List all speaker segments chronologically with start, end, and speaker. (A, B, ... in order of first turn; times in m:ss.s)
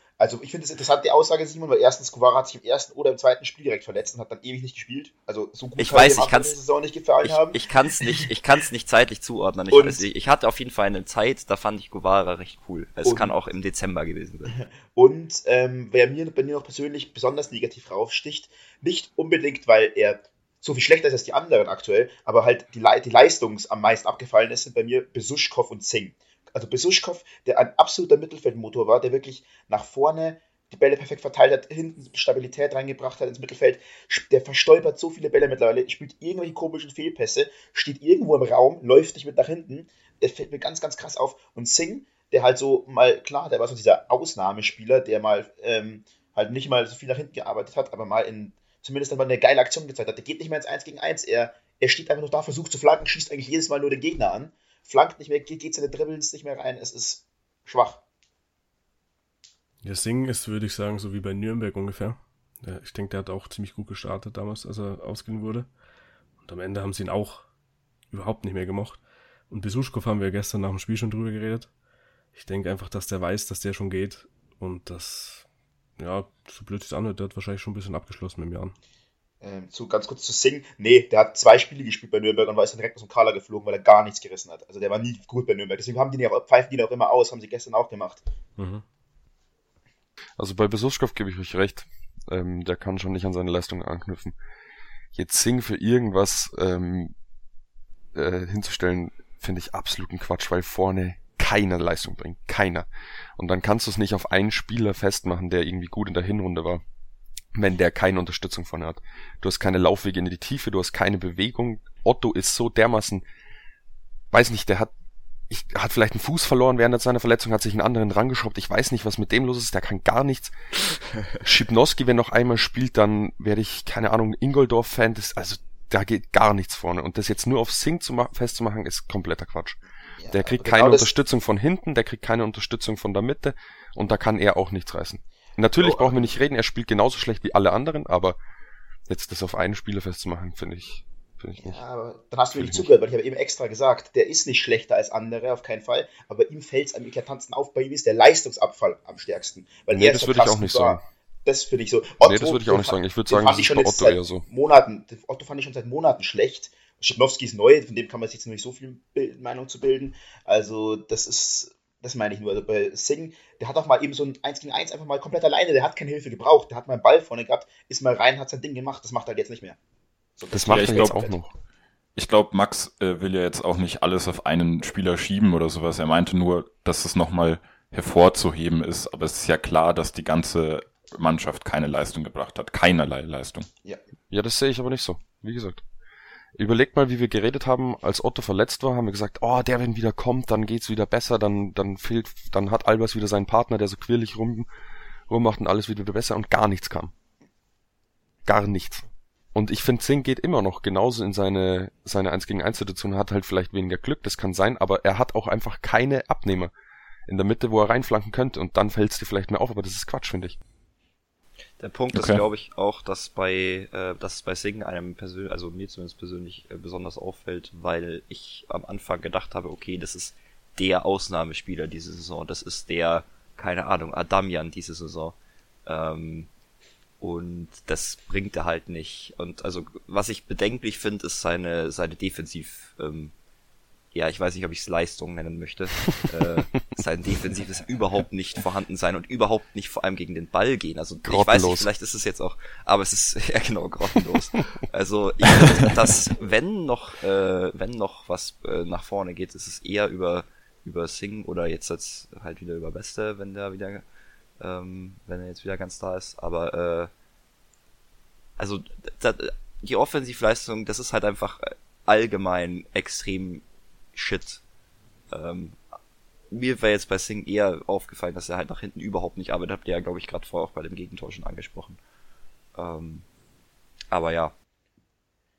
0:00.2-0:07.6 A
0:05.8-0:06.6 B
0:07.2-0:14.6 B
0:09.7-0:10.0 A
0:13.0-0:13.4 A
0:14.5-0:58.0 A
0:59.8-1:05.7 C
1:06.4-1:07.5 C
1:08.1-1:11.7 C
1:12.3-1:15.5 C
1:16.0-1:18.8 C
1:19.4-1:28.2 A
1:28.6-1:28.8 C
1:30.4-1:34.4 D
1:35.1-1:37.1 D
1:38.1-1:46.8 D
1:47.5-1:53.2 D
1:54.3-1:54.9 D
1:55.5-2:00.5 D
2:01.4-2:09.8 D
2:10.2-2:11.1 A
2:10.3-2:18.4 D
2:15.8-2:16.2 A
2:19.1-2:21.8 D
2:21.6-2:49.8 A
2:22.6-2:22.9 D
2:29.9-2:31.0 D
2:32.2-2:34.4 D
2:50.4-2:51.3 A
2:50.5-2:51.5 D
2:50.7-2:51.2 E
2:52.2-3:03.7 E
3:04.3-3:05.8 D
3:06.6-3:14.7 D
3:15.3-3:17.1 D
3:18.4-3:19.0 D
3:19.6-3:26.7 D
3:27.3-3:30.6 D
3:31.8-3:46.5 B
3:32.1-3:32.4 E
3:47.2-3:53.3 B
3:54.1-4:14.0 B
4:01.2-4:01.9 D
4:14.6-4:17.1 B
4:18.6-4:24.6 B
4:25.3-4:25.8 B
4:26.5-4:32.0 B
4:32.8-4:33.2 B
4:34.1-4:34.5 B